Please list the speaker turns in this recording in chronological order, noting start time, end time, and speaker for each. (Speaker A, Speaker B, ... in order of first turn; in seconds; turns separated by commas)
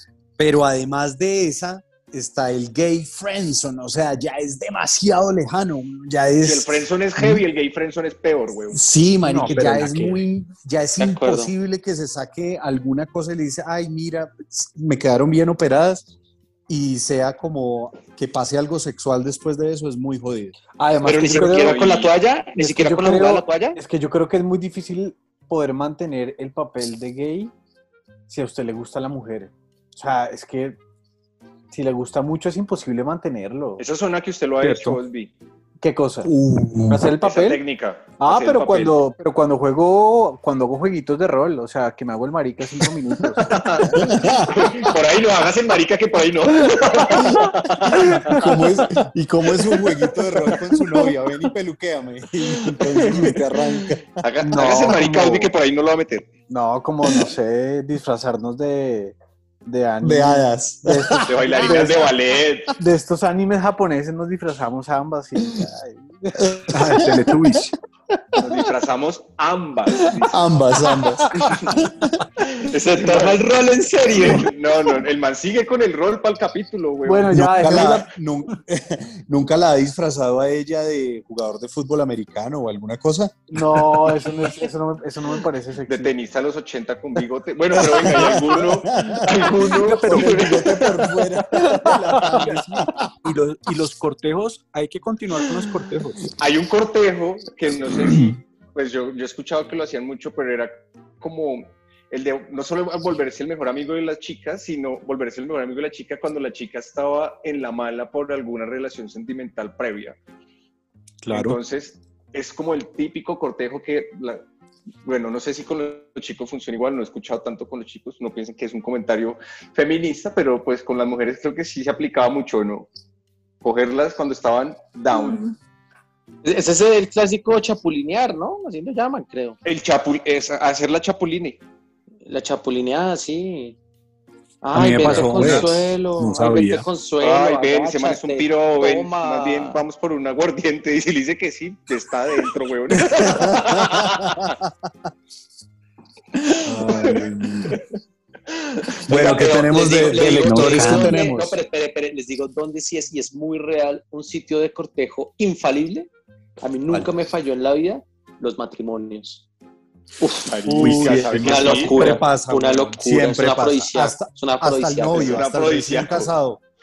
Speaker A: 0.4-7.4, Speaker B: 6.4-8.8, Speaker A: 8.7-16.1, Speaker C: 9.2-10.2, Speaker D: 11.0-11.5, Speaker A: 16.7-20.6, Speaker E: 20.8-21.8, Speaker D: 21.0-23.8, Speaker B: 21.2-22.1, Speaker E: 22.6-27.5, Speaker E: 28.3-30.8, Speaker E: 31.7-33.8, Speaker B: 33.8-35.3, Speaker C: 34.6-35.0, Speaker E: 35.8-36.3, Speaker A: 36.3-37.0, Speaker C: 36.4-36.9, Speaker E: 36.9-37.6, Speaker B: 37.2-39.0, Speaker E: 38.2-44.1, Speaker B: 43.5-48.5, Speaker A: 43.9-44.6, Speaker E: 47.0-48.5, Speaker A: 48.1-54.2, Speaker B: 52.8-53.3, Speaker B: 54.2-56.3, Speaker E: 54.4-55.5, Speaker E: 56.5-62.1, Speaker A: 60.0-61.9, Speaker B: 61.2-62.8, Speaker E: 62.7-67.0, Speaker A: 66.4-67.2, Speaker C: 66.7-67.7, Speaker B: 68.4-70.4, Speaker A: 70.3-72.2, Speaker B: 71.4-71.7, Speaker D: 72.6-74.5, Speaker B: 72.6-73.4, Speaker B: 74.1-77.8, Speaker E: 77.0-78.1, Speaker A: 77.3-84.1, Speaker E: 83.5-86.1, Speaker B: 85.9-90.9, Speaker A: 87.8-93.1, Speaker C: 89.6-90.6, Speaker C: 92.2-96.3, Speaker B: 96.3-110.2, Speaker C: 111.2-111.6, Speaker B: 111.3-114.4, Speaker B: 115.0-122.9, Speaker B: 123.6-125.5, Speaker D: 126.4-129.6, Speaker B: 129.6-131.6, Speaker D: 132.2-133.8, Speaker D: 134.6-139.8, Speaker A: 134.7-136.8, Speaker C: 134.8-135.7, Speaker B: 137.2-144.5, Speaker A: 143.2-144.7, Speaker B: 146.7-147.8, Speaker A: 146.8-147.8, Speaker D: 149.0-156.1, Speaker A: 149.1-151.6, Speaker B: 149.1-149.4, Speaker B: 149.9-150.6, Speaker C: 150.5-151.2, Speaker D: 156.6-159.4, Speaker D: 160.2-165.4, Speaker B: 160.4-162.1, Speaker A: 160.7-166.6, Speaker C: 160.8-162.2, Speaker B: 165.1-166.3